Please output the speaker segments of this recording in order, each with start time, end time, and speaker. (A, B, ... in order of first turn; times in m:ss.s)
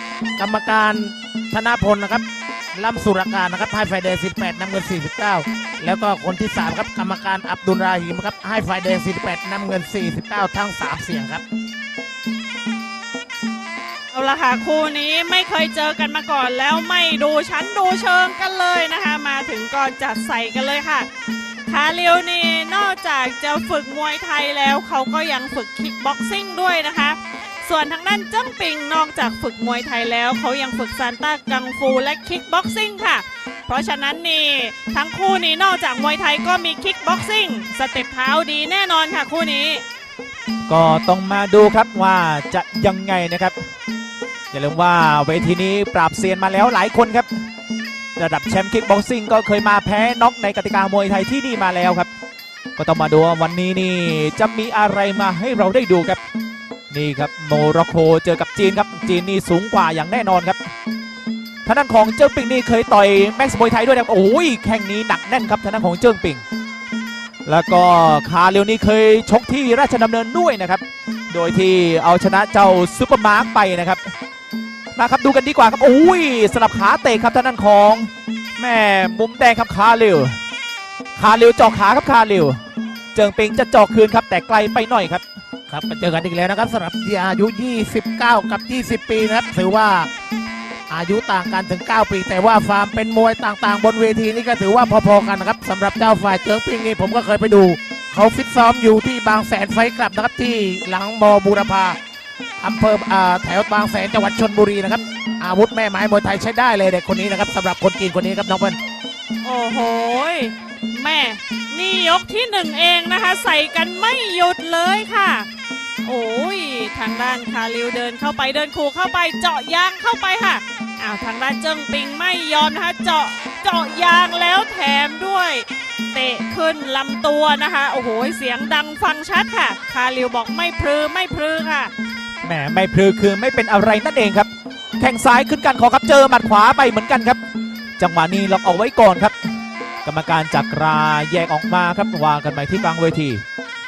0:00.4-0:02.2 A
0:02.8-0:11.4 A
0:14.1-0:21.1 B
0:21.7-0:39.8 B
0:40.7-0:43.6 C
0:44.5-0:47.3 C
0:48.2-0:52.1 C
0:52.8-0:56.2 C
0:56.9-1:00.6 C
1:01.6-1:06.4 C
1:07.4-1:14.1 C
1:15.0-1:20.4 C
1:21.2-1:22.6 C
1:23.2-1:25.2 C
1:25.7-1:30.1 A
1:30.9-1:42.0 A
1:42.6-1:48.8 A
1:49.4-1:55.5 B
1:56.0-2:11.9 B
2:12.4-2:17.4 C
2:18.0-2:19.4 C
2:20.0-2:23.4 C